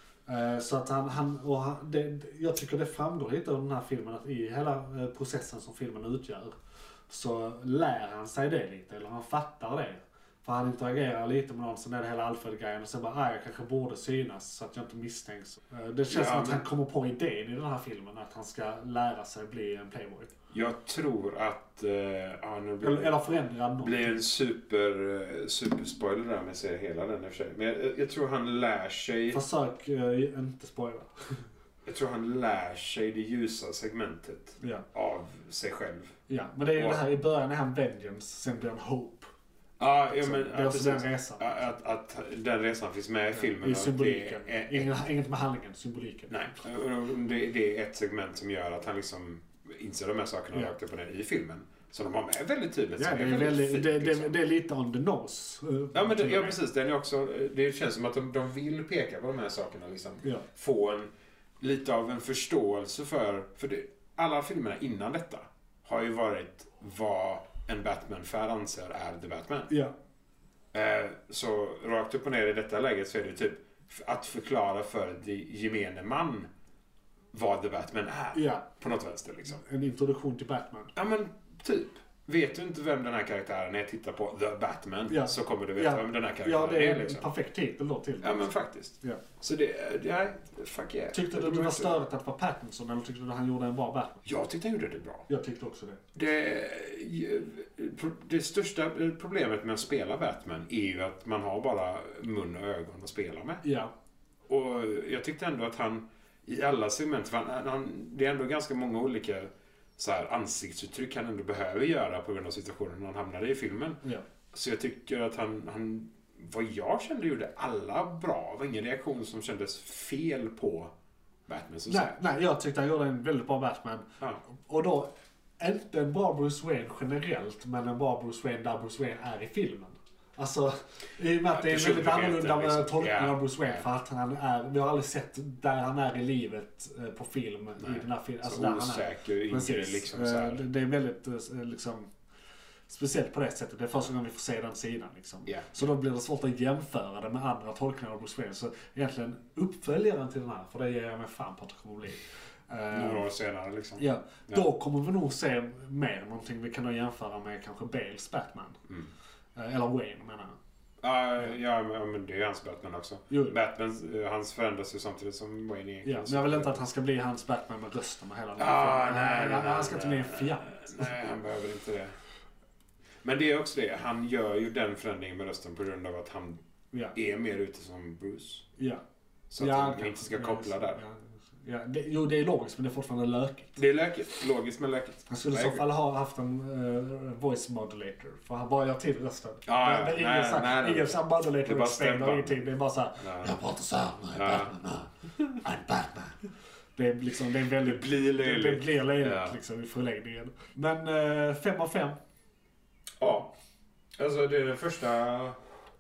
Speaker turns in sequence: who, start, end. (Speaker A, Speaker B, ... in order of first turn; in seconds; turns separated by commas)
Speaker A: 0.3-6.5, Speaker A: 7.1-20.3, Speaker B: 16.1-16.6, Speaker B: 20.5-23.2, Speaker A: 22.8-24.2, Speaker B: 23.8-29.4, Speaker A: 29.3-31.5, Speaker B: 31.9-36.1, Speaker A: 36.3-39.3, Speaker B: 36.7-37.0, Speaker B: 39.8-45.0, Speaker A: 40.2-41.5, Speaker A: 43.3-46.6, Speaker B: 46.3-54.4, Speaker A: 53.0-56.6, Speaker B: 55.9-69.7, Speaker B: 70.7-76.5, Speaker B: 77.3-79.6, Speaker A: 78.3-78.7, Speaker A: 79.5-80.9, Speaker B: 80.9-87.2, Speaker A: 85.1-89.2, Speaker B: 88.2-92.0, Speaker A: 91.1-94.2, Speaker B: 94.2-95.2, Speaker A: 95.3-96.0, Speaker B: 96.1-103.6, Speaker A: 103.6-103.9, Speaker B: 104.5-114.0, Speaker B: 114.5-120.9, Speaker B: 121.5-122.2, Speaker A: 121.9-142.1, Speaker B: 131.5-133.8, Speaker B: 137.8-140.6, Speaker A: 142.9-153.2, Speaker B: 152.9-154.7, Speaker A: 154.0-158.8, Speaker A: 159.6-160.6, Speaker B: 161.0-166.8, Speaker A: 163.3-163.6, Speaker A: 166.0-171.1, Speaker B: 168.6-172.1, Speaker B: 173.2-176.6, Speaker B: 177.1-178.7, Speaker A: 178.8-179.0, Speaker B: 179.5-181.0, Speaker A: 179.6-183.8, Speaker B: 183.8-185.8, Speaker A: 185.3-202.2, Speaker B: 189.7-192.6, Speaker B: 193.2-193.6, Speaker B: 194.3-194.7, Speaker B: 197.8-199.6, Speaker B: 203.2-203.5, Speaker B: 204.2-205.6